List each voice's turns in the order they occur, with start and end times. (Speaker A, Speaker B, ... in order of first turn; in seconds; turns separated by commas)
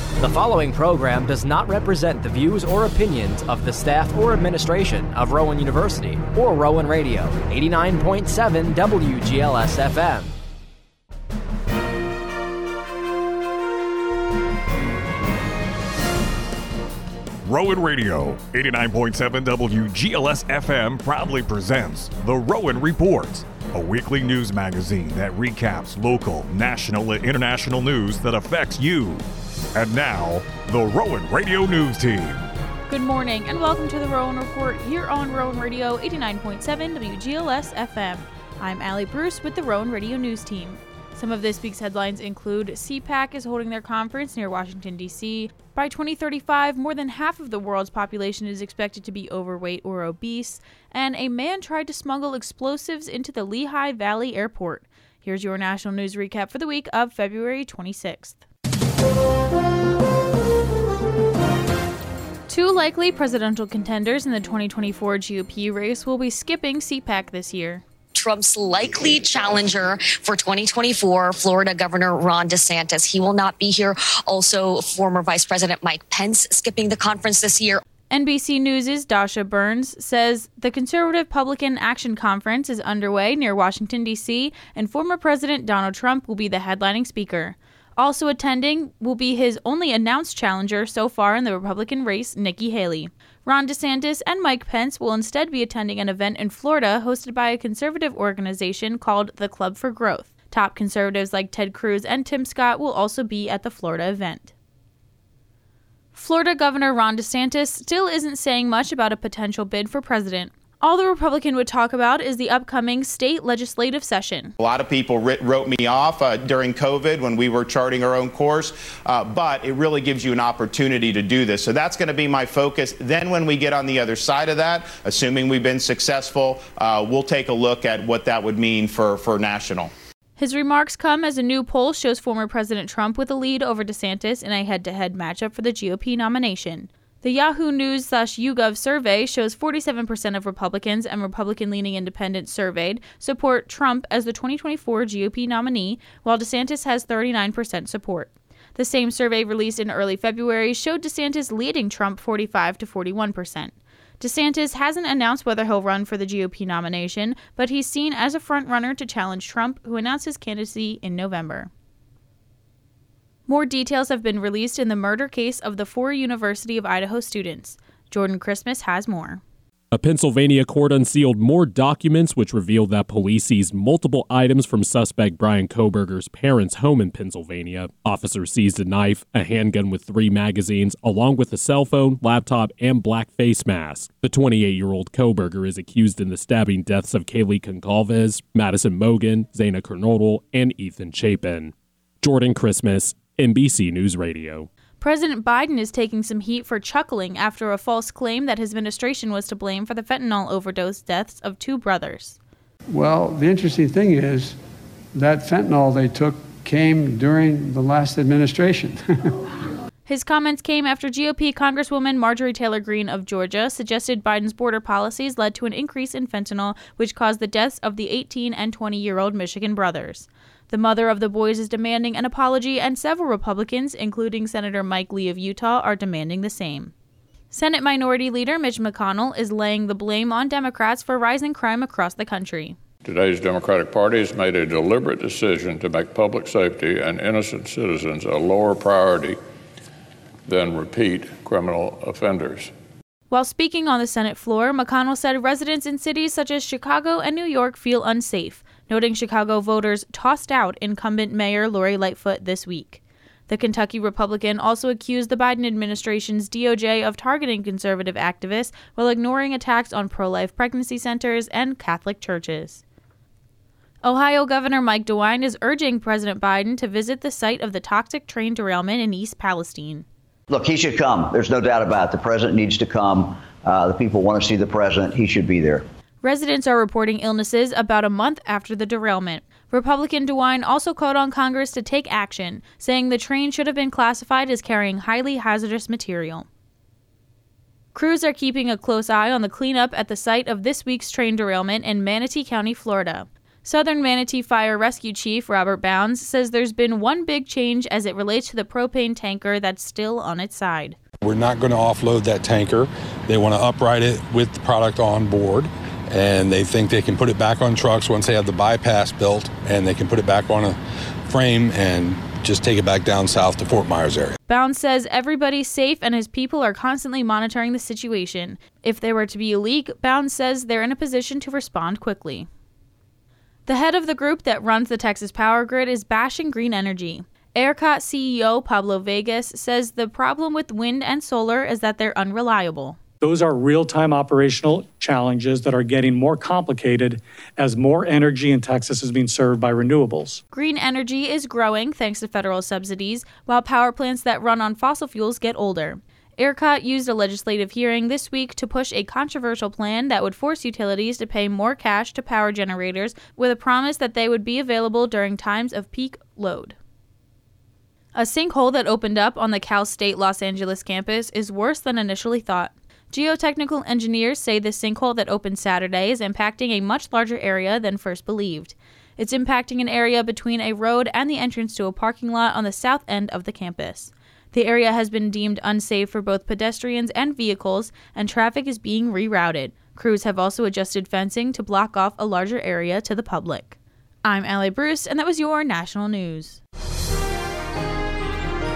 Speaker A: 0.2-10.3, Speaker B: 17.4-32.5, Speaker C: 32.9-58.4, Speaker C: 62.5-67.8, Speaker D: 68.1-77.8, Speaker C: 78.1-104.5, Speaker C: 106.1-114.5, Speaker E: 114.6-129.9, Speaker C: 130.4-161.7, Speaker C: 163.5-169.4, Speaker F: 169.9-194.7, Speaker C: 195.0-202.4, Speaker G: 202.9-204.6, Speaker G: 205.1-209.4, Speaker C: 210.1-226.9, Speaker C: 227.5-232.8, Speaker H: 233.0-239.4, Speaker H: 240.4-242.7, Speaker C: 243.3-262.8, Speaker C: 264.0-270.0, Speaker I: 270.5-275.9, Speaker C: 276.2-286.5, Speaker C: 287.9-301.0, Speaker J: 301.2-314.4, Speaker C: 314.5-322.5, Speaker C: 323.6-333.0, Speaker K: 333.2-340.4, Speaker C: 340.5-356.7, Speaker C: 358.1-386.6